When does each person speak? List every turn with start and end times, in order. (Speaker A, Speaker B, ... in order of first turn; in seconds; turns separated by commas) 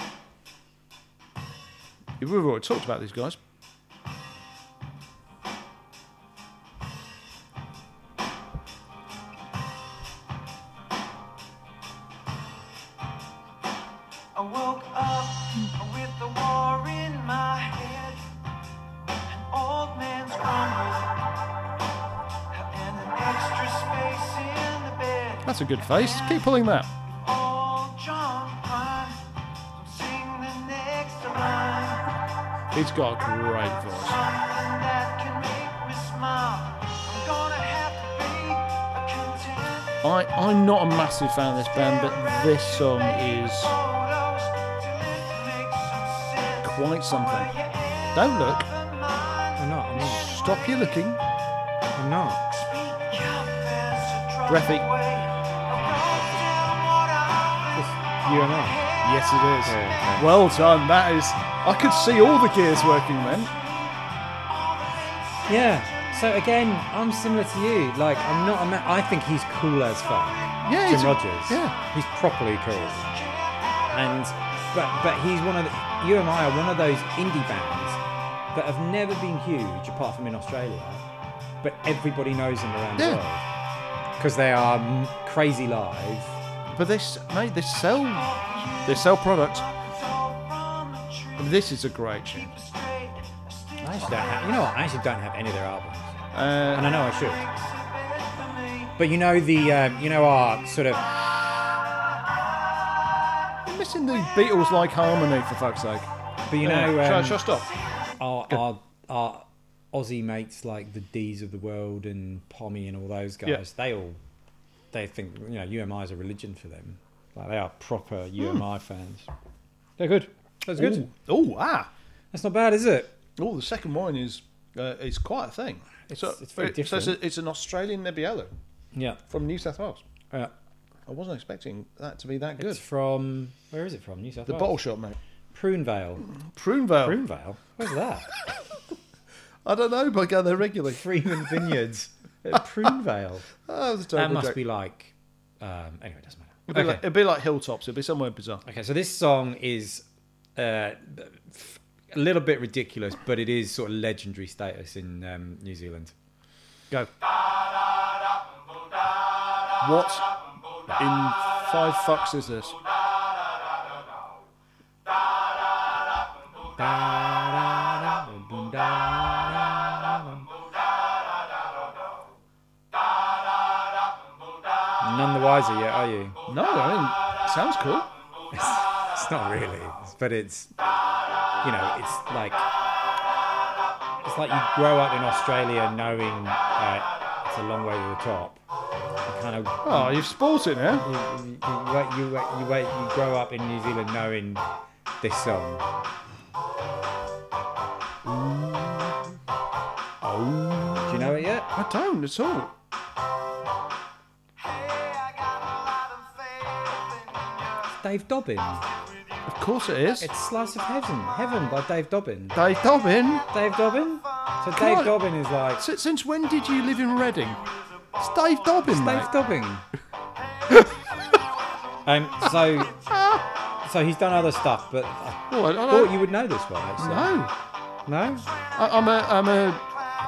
Speaker A: 2.2-3.4, Speaker B: 14.3-18.3, Speaker B: 19.3-21.3, Speaker B: 22.5-26.5, Speaker A: 25.4-26.9, Speaker B: 27.1-32.1, Speaker A: 32.7-34.2, Speaker B: 34.0-40.0, Speaker A: 40.0-43.8, Speaker B: 41.7-50.9, Speaker A: 46.6-47.5, Speaker A: 48.1-48.7, Speaker C: 49.6-50.3, Speaker A: 50.0-51.2, Speaker C: 52.0-52.4, Speaker B: 52.5-60.1, Speaker A: 54.5-54.9, Speaker C: 56.1-56.5, Speaker C: 57.7-58.8, Speaker A: 59.0-63.5, Speaker C: 59.6-60.3, Speaker B: 61.8-66.3, Speaker C: 65.5-73.1, Speaker A: 70.6-71.8, Speaker B: 72.7-75.0, Speaker C: 73.9-78.0, Speaker C: 78.5-81.0, Speaker C: 81.6-83.4, Speaker A: 83.0-83.2, Speaker C: 84.2-86.4, Speaker A: 86.7-88.3, Speaker B: 88.1-91.7, Speaker A: 88.8-89.7, Speaker A: 91.4-92.5, Speaker B: 92.2-94.7, Speaker C: 93.8-96.2, Speaker A: 96.3-96.9, Speaker C: 96.7-97.4, Speaker B: 96.8-99.0, Speaker C: 99.0-101.1, Speaker A: 103.7-106.1, Speaker C: 106.5-107.5, Speaker A: 106.6-107.7, Speaker C: 108.2-114.2, Speaker C: 114.9-119.3, Speaker C: 120.0-121.1, Speaker A: 120.8-121.9, Speaker C: 122.3-123.1, Speaker A: 123.4-128.5, Speaker C: 126.1-127.2, Speaker C: 128.9-129.2, Speaker A: 129.3-130.0, Speaker A: 131.1-132.8, Speaker C: 132.6-134.8, Speaker A: 134.5-135.2, Speaker C: 135.5-136.3, Speaker A: 136.3-137.2, Speaker C: 137.0-138.3, Speaker A: 139.7-141.7, Speaker C: 140.9-143.5, Speaker A: 143.7-144.6, Speaker C: 144.1-147.0, Speaker A: 146.7-148.6, Speaker C: 148.7-150.1, Speaker C: 150.6-156.1, Speaker A: 159.8-160.3, Speaker A: 160.9-162.8, Speaker C: 166.8-170.5, Speaker C: 175.0-176.4, Speaker A: 176.5-178.1, Speaker C: 178.5-180.7, Speaker C: 181.6-182.7, Speaker C: 184.2-188.6, Speaker C: 189.3-190.3, Speaker A: 189.8-191.1, Speaker C: 191.0-194.6, Speaker C: 195.2-195.8, Speaker A: 198.2-199.2, Speaker A: 200.2-202.7, Speaker C: 201.1-201.7, Speaker B: 204.6-207.7, Speaker C: 207.9-208.8, Speaker A: 209.5-210.3, Speaker C: 210.2-212.6, Speaker A: 212.5-213.5, Speaker C: 213.5-215.8, Speaker A: 214.8-215.2, Speaker A: 215.8-217.6, Speaker A: 218.2-219.3, Speaker C: 218.8-219.8, Speaker C: 222.1-223.0, Speaker A: 223.1-223.4, Speaker C: 223.8-227.4, Speaker A: 225.5-226.2, Speaker A: 227.0-227.5, Speaker C: 228.1-228.5, Speaker A: 228.8-229.8